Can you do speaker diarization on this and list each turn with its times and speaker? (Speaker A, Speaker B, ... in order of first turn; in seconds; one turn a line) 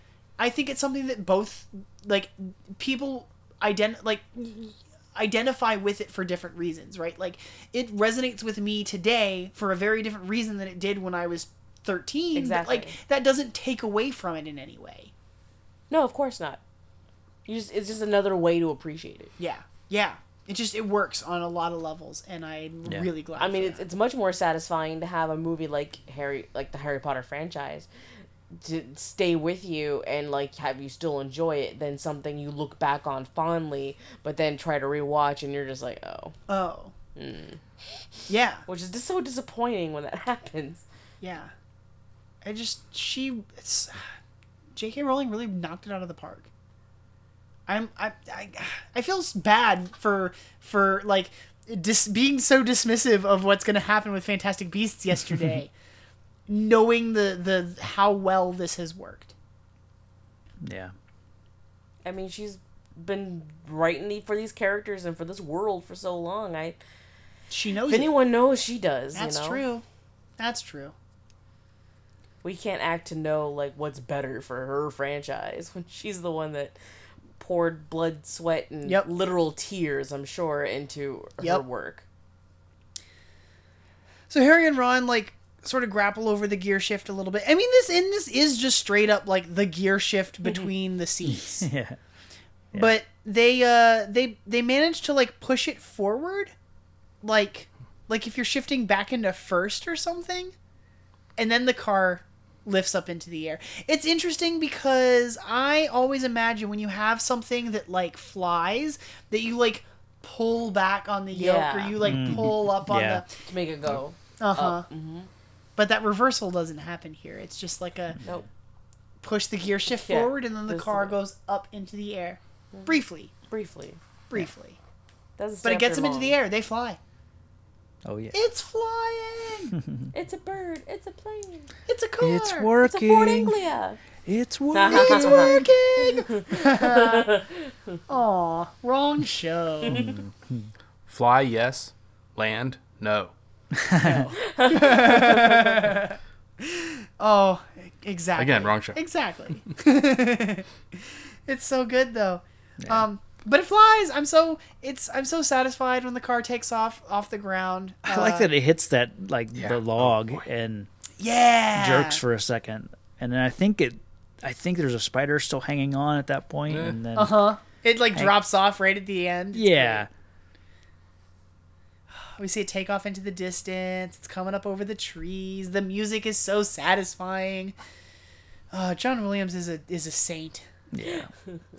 Speaker A: 0.4-15.1
Speaker B: 12.3-13.0
Speaker B: 15.9-16.6
Speaker B: 17.4-19.3
Speaker A: 19.4-23.9
Speaker B: 23.4-27.9
Speaker B: 28.5-36.4
Speaker A: 36.5-36.9
Speaker B: 37.1-40.8
Speaker A: 38.3-38.6
Speaker A: 41.2-41.5
Speaker A: 42.4-44.1
Speaker A: 44.7-46.5
Speaker A: 47.7-55.7
Speaker A: 56.5-59.3
Speaker C: 60.6-60.9
Speaker B: 62.0-66.8
Speaker A: 67.5-68.1
Speaker B: 67.9-69.6
Speaker A: 69.1-69.8
Speaker A: 70.4-70.9
Speaker B: 72.4-76.8
Speaker B: 77.3-82.0
Speaker A: 84.3-91.7
Speaker C: 91.2-92.0
Speaker A: 92.7-96.5
Speaker A: 97.2-100.5
Speaker A: 101.4-113.3
Speaker B: 111.3-112.0
Speaker C: 112.0-113.2
Speaker B: 113.4-115.3
Speaker A: 114.4-114.8
Speaker A: 115.8-118.2
Speaker C: 118.1-118.4
Speaker A: 119.2-123.3
Speaker B: 119.9-121.2
Speaker B: 122.7-124.0
Speaker A: 124.3-124.8
Speaker B: 125.4-126.4
Speaker A: 125.6-127.0
Speaker C: 128.0-128.4
Speaker A: 128.3-129.8
Speaker B: 130.1-131.7
Speaker A: 131.9-132.7
Speaker C: 132.2-133.6
Speaker B: 132.8-134.0
Speaker C: 134.2-135.7
Speaker B: 134.7-138.0
Speaker A: 134.9-137.3
Speaker A: 138.1-140.0
Speaker C: 139.8-140.7
Speaker D: 141.1-143.3
Speaker C: 143.7-144.3
Speaker A: 144.0-158.5
Speaker B: 144.4-145.6
Speaker D: 148.3-149.0
Speaker C: 152.8-153.1
Speaker C: 158.1-160.9
Speaker D: 159.5-160.5
Speaker A: 161.2-162.2
Speaker C: 161.7-167.4
Speaker D: 166.7-167.0
Speaker A: 167.1-170.1
Speaker C: 169.5-170.1
Speaker A: 172.1-177.7
Speaker A: 178.7-180.7
Speaker C: 180.9-181.3